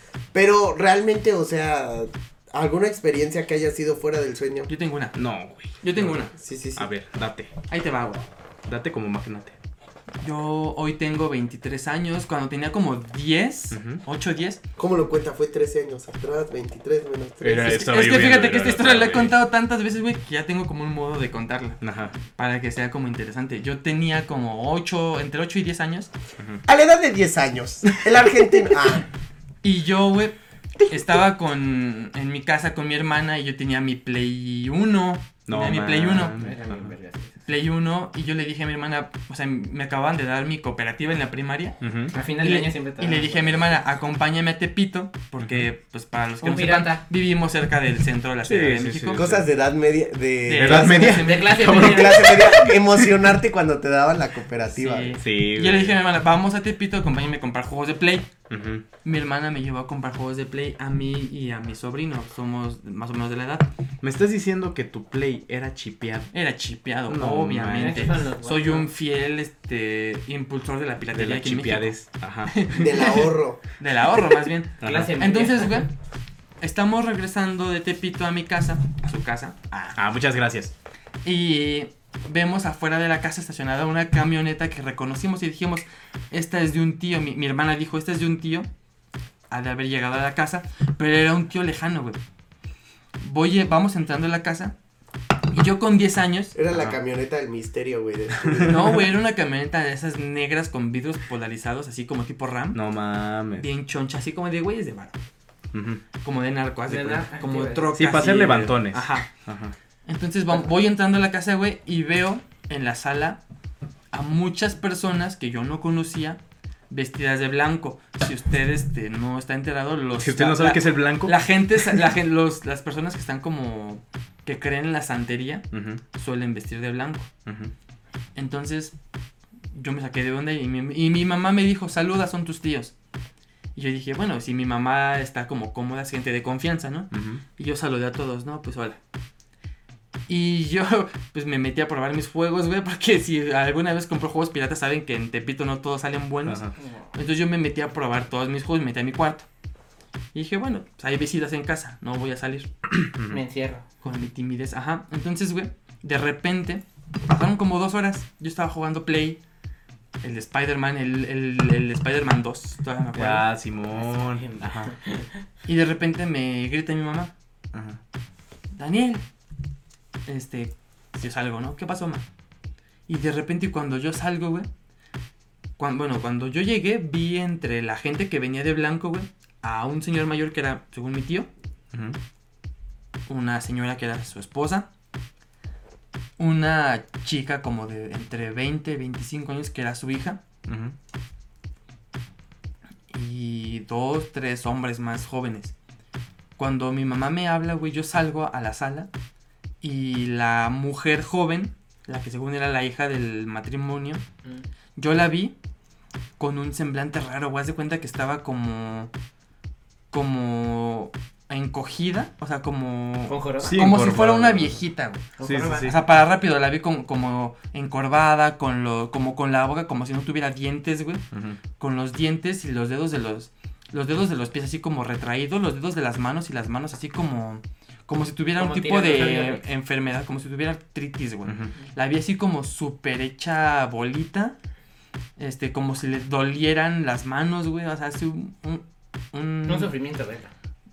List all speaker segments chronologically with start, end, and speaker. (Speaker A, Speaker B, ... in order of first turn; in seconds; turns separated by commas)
Speaker A: 0.3-4.7, Speaker B: 4.7-5.2, Speaker C: 5.1-6.2, Speaker B: 5.8-6.3, Speaker A: 6.3-6.9, Speaker C: 6.7-7.5, Speaker B: 7.7-8.2, Speaker C: 8.7-9.5, Speaker B: 10.2-14.6, Speaker C: 13.7-14.0, Speaker A: 14.8-17.8, Speaker C: 17.4-19.4, Speaker B: 17.6-21.8, Speaker C: 21.8-22.1, Speaker B: 22.3-26.1, Speaker C: 26.4-26.6, Speaker A: 26.6-29.1, Speaker B: 29.6-30.4, Speaker B: 30.9-36.4, Speaker C: 35.5-36.9, Speaker D: 36.4-37.4, Speaker B: 37.5-41.8, Speaker C: 41.8-42.1, Speaker D: 42.1-43.4, Speaker B: 42.4-49.2, Speaker C: 45.4-45.6, Speaker D: 46.4-47.0, Speaker C: 48.5-49.5, Speaker A: 49.1-55.2, Speaker B: 50.4-51.7, Speaker C: 50.5-53.0, Speaker D: 51.2-52.4, Speaker B: 54.7-58.3, Speaker C: 55.2-56.0, Speaker C: 58.5-58.8, Speaker B: 59.0-63.7, Speaker C: 64.0-66.3, Speaker B: 66.3-75.9, Speaker C: 67.1-68.2, Speaker D: 67.7-68.9, Speaker C: 71.1-72.7, Speaker A: 72.7-73.6, Speaker C: 74.8-75.1, Speaker D: 74.8-75.8, Speaker B: 76.6-80.0, Speaker C: 79.9-80.7, Speaker B: 81.2-88.7, Speaker B: 89.5-92.2, Speaker B: 93.2-94.7, Speaker B: 95.5-96.5, Speaker A: 96.5-99.1, Speaker C: 96.7-97.0, Speaker C: 98.4-98.7, Speaker B: 98.6-102.8, Speaker C: 102.7-103.7, Speaker B: 103.6-105.2, Speaker C: 105.7-106.0, Speaker B: 106.2-109.3, Speaker D: 106.9-107.9, Speaker C: 107.9-109.7, Speaker B: 110.0-113.4, Speaker B: 114.1-127.3, Speaker C: 120.1-122.1, Speaker C: 125.7-126.0, Speaker C: 127.5-127.7, Speaker B: 128.3-128.9, Speaker B: 129.7-132.9, Speaker B: 133.7-139.0, Speaker C: 137.1-137.4, Speaker B: 140.3-149.5, Speaker C: 146.4-146.7, Speaker B: 150.3-152.7, Speaker C: 152.9-153.4, Speaker D: 153.3-153.8, Speaker B: 154.0-159.4, Speaker B: 160.2-163.5, Speaker C: 163.1-164.9, Speaker D: 163.9-165.3, Speaker B: 165.7-167.3, Speaker C: 167.7-168.0, Speaker B: 168.8-169.2, Speaker B: 170.3-172.2, Speaker B: 173.1-174.7, Speaker B: 175.8-181.5, Speaker C: 181.9-182.2, Speaker B: 183.3-184.9, Speaker B: 186.4-190.4, Speaker C: 190.7-190.9, Speaker B: 193.1-195.7, Speaker B: 196.6-199.1, Speaker B: 199.8-204.2, Speaker B: 204.9-205.5, Speaker B: 206.4-209.1, Speaker B: 210.1-215.2, Speaker D: 213.3-213.8, Speaker C: 213.6-214.8, Speaker D: 215.4-215.9, Speaker C: 215.4-216.0, Speaker B: 215.8-221.2, Speaker C: 221.3-221.6, Speaker B: 221.8-234.6, Speaker D: 228.6-229.6, Speaker C: 231.4-231.7, Speaker B: 235.4-239.9, Speaker D: 239.7-240.5